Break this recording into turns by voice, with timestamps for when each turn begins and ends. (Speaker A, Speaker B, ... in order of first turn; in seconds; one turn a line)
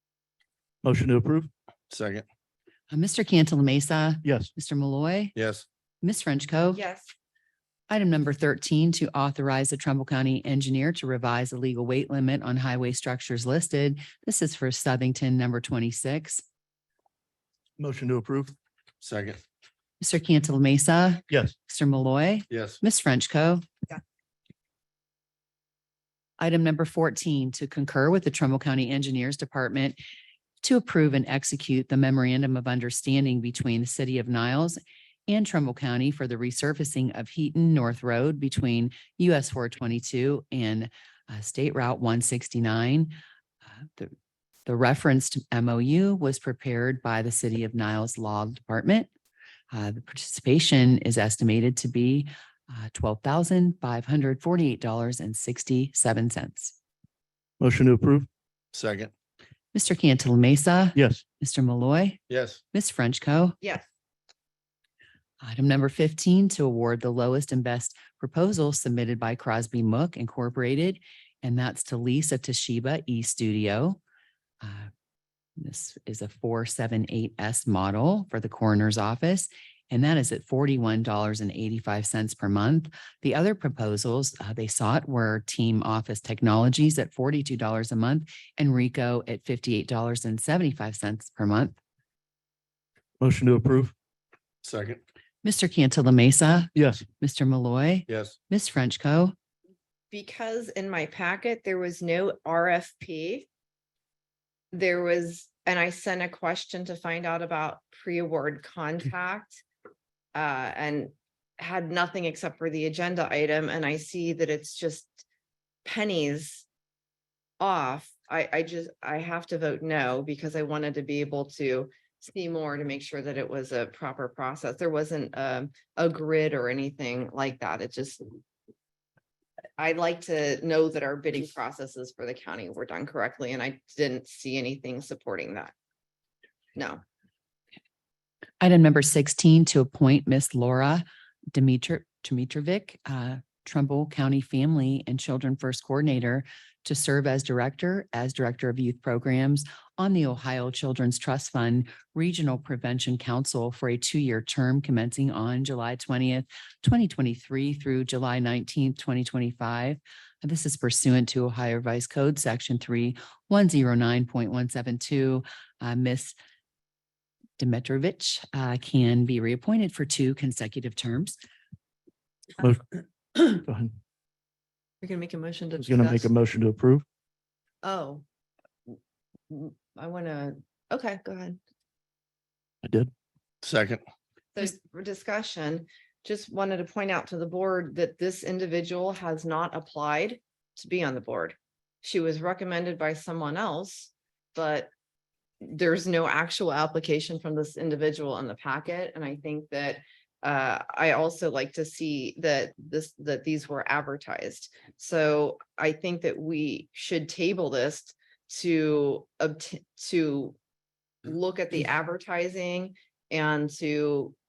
Speaker A: 0.8-1.5
Speaker B: 1.9-2.2
Speaker C: 2.9-5.3
Speaker A: 4.2-4.5
Speaker B: 5.4-5.7
Speaker C: 6.0-6.8
Speaker D: 6.7-7.1
Speaker C: 7.9-16.4
Speaker A: 17.8-18.6
Speaker B: 19.0-19.4
Speaker C: 20.0-23.6
Speaker A: 21.3-21.6
Speaker B: 22.5-22.8
Speaker C: 26.4-30.0
Speaker C: 30.6-43.1
Speaker C: 43.8-44.1
Speaker C: 44.7-49.1
Speaker C: 49.7-56.8
Speaker A: 57.6-58.3
Speaker B: 58.7-59.1
Speaker C: 59.7-62.2
Speaker A: 61.0-61.2
Speaker B: 62.3-62.6
Speaker C: 62.7-63.6
Speaker C: 65.4-74.0
Speaker C: 74.6-74.9
Speaker C: 75.6-91.8
Speaker A: 93.2-93.9
Speaker B: 94.6-95.0
Speaker C: 95.4-99.3
Speaker A: 96.8-97.1
Speaker B: 98.1-98.4
Speaker D: 100.1-103.5
Speaker D: 104.7-109.6
Speaker D: 110.3-115.2
Speaker D: 115.8-116.7
Speaker D: 117.6-128.3
Speaker D: 129.8-135.7
Speaker D: 136.8-137.0
Speaker C: 138.6-166.4
Speaker C: 167.6-171.4
Speaker A: 172.6-174.0
Speaker D: 175.0-176.3
Speaker A: 175.8-177.0
Speaker D: 177.8-178.2
Speaker D: 179.5-181.6
Speaker A: 182.8-183.1
Speaker B: 183.6-184.0
Speaker D: 184.6-194.9
Speaker D: 195.6-210.6
Speaker D: 211.2-214.3